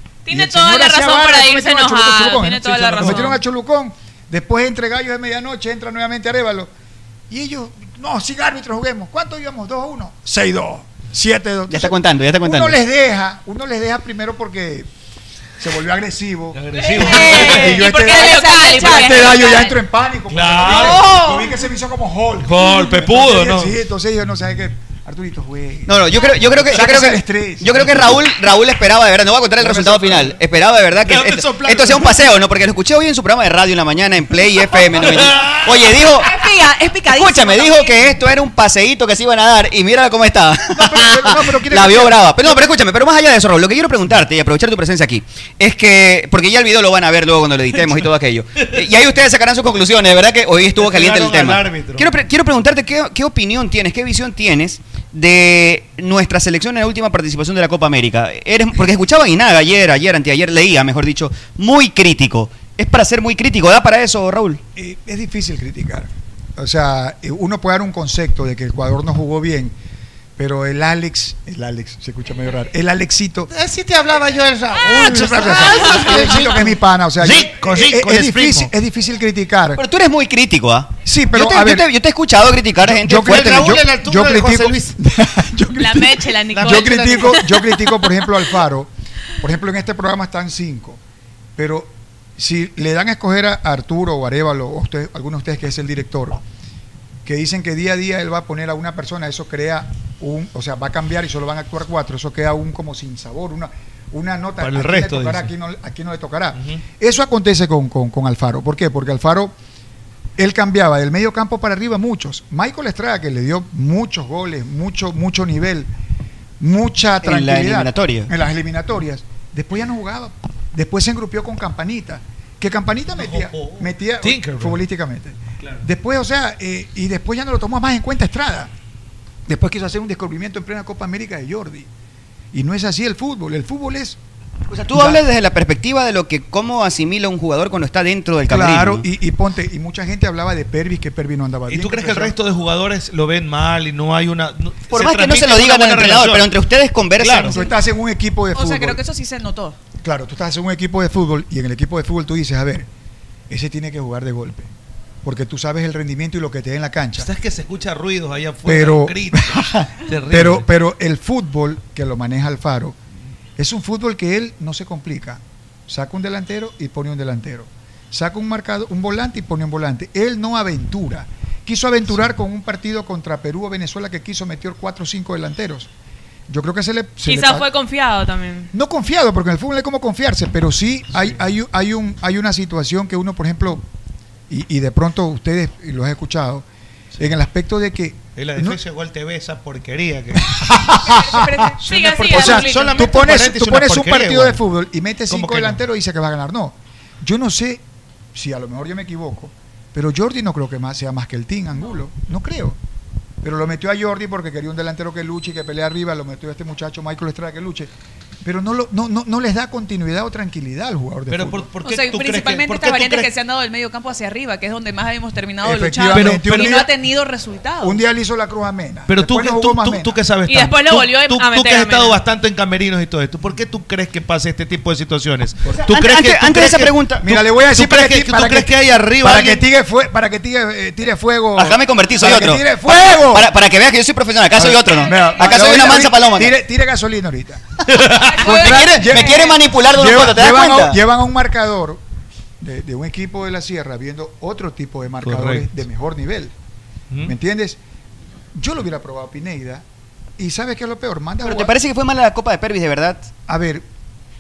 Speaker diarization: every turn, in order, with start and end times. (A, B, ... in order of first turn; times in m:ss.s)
0:00.2-0:03.4 A
0:00.3-0:06.7 B
0:07.3-0:14.9 B
0:11.7-0:12.8 C
0:15.6-0:28.2 B
0:16.5-0:17.7 D
0:16.8-0:19.6 E
0:17.0-0:19.7 A
0:20.3-0:21.2 D
0:21.1-0:21.4 E
0:22.4-0:23.7 D
0:25.9-0:36.4 C
0:29.6-0:30.4 B
0:31.0-0:32.3 D
0:34.9-0:35.6 D
0:36.2-0:38.0 E
0:37.1-1:04.6 C
0:40.8-0:42.5 B
0:50.8-0:52.1 D
1:04.8-1:09.8 B
1:10.4-1:13.5 B
1:13.5-1:16.4 F
1:14.9-1:19.8 B
1:17.2-1:18.7 D
1:19.8-1:23.8 C
1:21.0-1:21.9 B
1:22.8-1:31.0 B
1:23.3-1:23.6 D
1:23.6-1:24.8 F
1:25.8-1:27.7 A
1:26.7-1:27.0 D
1:31.6-1:36.4 B
1:37.2-1:49.5 B
1:44.6-1:45.5 D
1:50.4-1:55.9 B
1:56.6-2:08.7 B
1:57.2-1:58.3 C
2:03.2-2:04.8 D
2:09.5-2:11.9 B
2:12.5-2:14.2 B
2:14.7-2:19.0 C
2:14.9-2:15.2 B
2:18.5-2:22.4 B
2:21.7-2:26.5 D
2:24.9-2:27.6 C
2:27.2-2:27.6 D
2:27.5-2:29.0 B
2:28.5-2:29.8 E
2:30.0-2:32.9 B
2:33.5-2:34.7 B
2:35.2-2:37.3 B
2:37.2-2:39.6 D
2:38.6-2:43.0 B
2:40.1-2:40.7 D
2:43.6-2:55.9 B
2:56.5-2:57.7 B
2:57.2-2:58.7 A
2:58.7-3:03.8 B
3:04.5-3:06.6 B
3:07.2-3:08.8 B
3:08.4-3:10.5 D
3:11.0-3:12.9 E
3:11.8-3:13.1 A
3:11.9-3:14.6 D
3:12.0-3:17.8 B
3:15.3-3:15.8 D
3:18.4-3:22.8 B
3:23.4-3:27.9 B
3:28.4-3:31.7 B
3:31.3-3:33.3 D
3:31.8-3:38.0 E
3:35.6-3:36.9 B
3:36.0-3:36.8 D
3:37.8-3:40.2 B
3:39.1-3:49.6 D
3:40.5-3:42.2 A
3:45.9-3:47.4 C
3:47.2-3:53.5 B
3:51.6-3:56.6 C
3:54.5-3:57.6 B
3:58.2-3:59.6 E
3:58.4-4:02.0 B
3:58.4-4:01.0 C
4:02.6-4:06.5 B
4:05.2-4:05.7 D
4:07.2-4:07.8 B
4:08.5-4:09.8 B
4:10.4-4:11.7 B
4:11.4-4:13.3 C
4:13.5-4:13.8 B